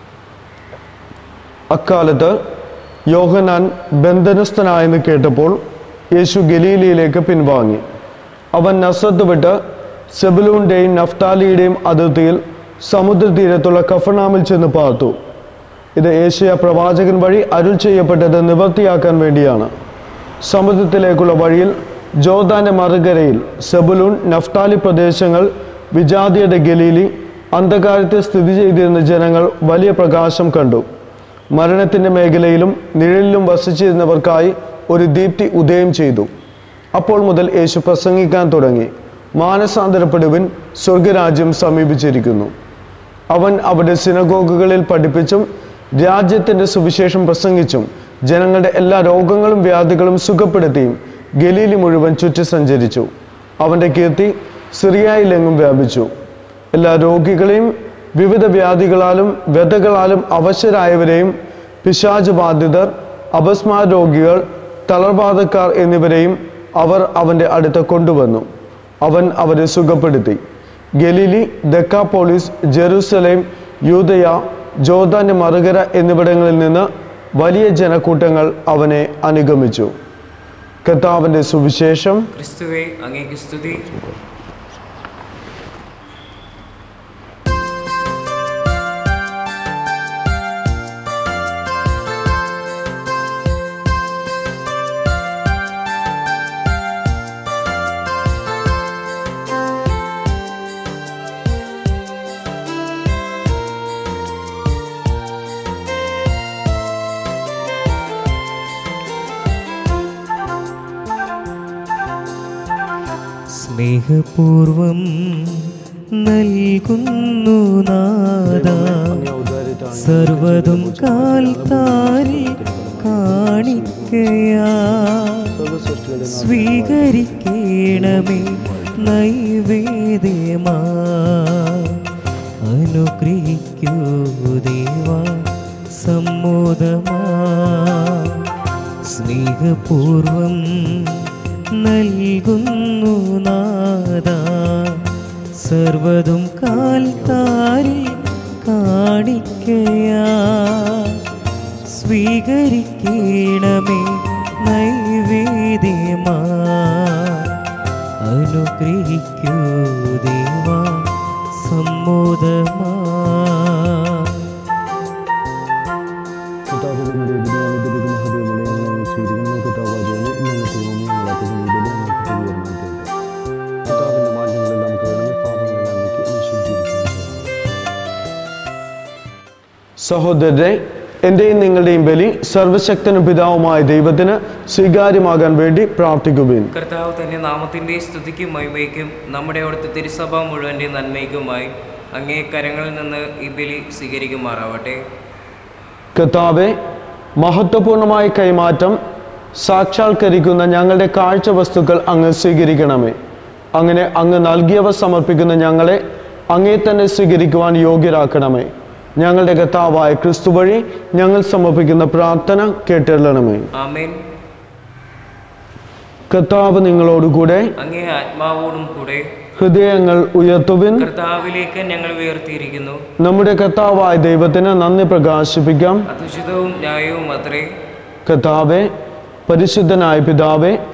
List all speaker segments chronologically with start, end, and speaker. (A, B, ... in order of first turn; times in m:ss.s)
0:01.7-0:02.4 A
0:03.1-0:05.6 A
0:06.2-0:07.8 A
0:08.6-0:09.6 A
0:10.1-0:15.2 A
0:16.0-0:19.7 A
0:20.4-0:30.9 A
0:31.5-0:36.3 A
0:37.0-0:42.5 A
0:43.3-0:56.1 A
0:56.7-1:08.5 A
1:09.0-1:10.4 A
1:11.0-1:20.0 A
1:20.8-1:22.3 A
1:22.4-1:23.9 B
1:23.7-1:24.2 A
1:53.6-1:55.7 C
1:56.2-1:58.9 C
1:58.5-2:09.3 A
2:00.0-2:02.4 C
2:03.0-2:05.5 C
2:06.3-2:12.0 C
2:12.7-2:15.5 C
2:16.0-2:18.4 C
2:19.1-2:21.2 C
2:21.8-2:25.0 C
2:25.6-2:31.2 C
2:27.2-2:27.7 A
2:31.9-2:34.1 C
2:34.6-2:37.5 C
2:38.2-2:41.0 C
2:41.6-2:44.4 C
2:46.7-2:53.1 A
2:53.8-2:57.6 A
3:00.0-3:06.7 A
3:06.7-3:15.0 B
3:16.2-3:16.8 A
3:17.4-3:19.0 A
3:19.6-3:23.2 A
3:23.8-3:33.7 A
3:33.8-3:34.2 B
3:36.3-3:37.7 A
3:37.8-3:39.2 B
3:39.6-3:41.1 A
3:41.0-3:43.0 B
3:43.2-3:46.1 A
3:46.1-3:47.7 B
3:48.3-3:48.9 A
3:49.5-3:50.8 A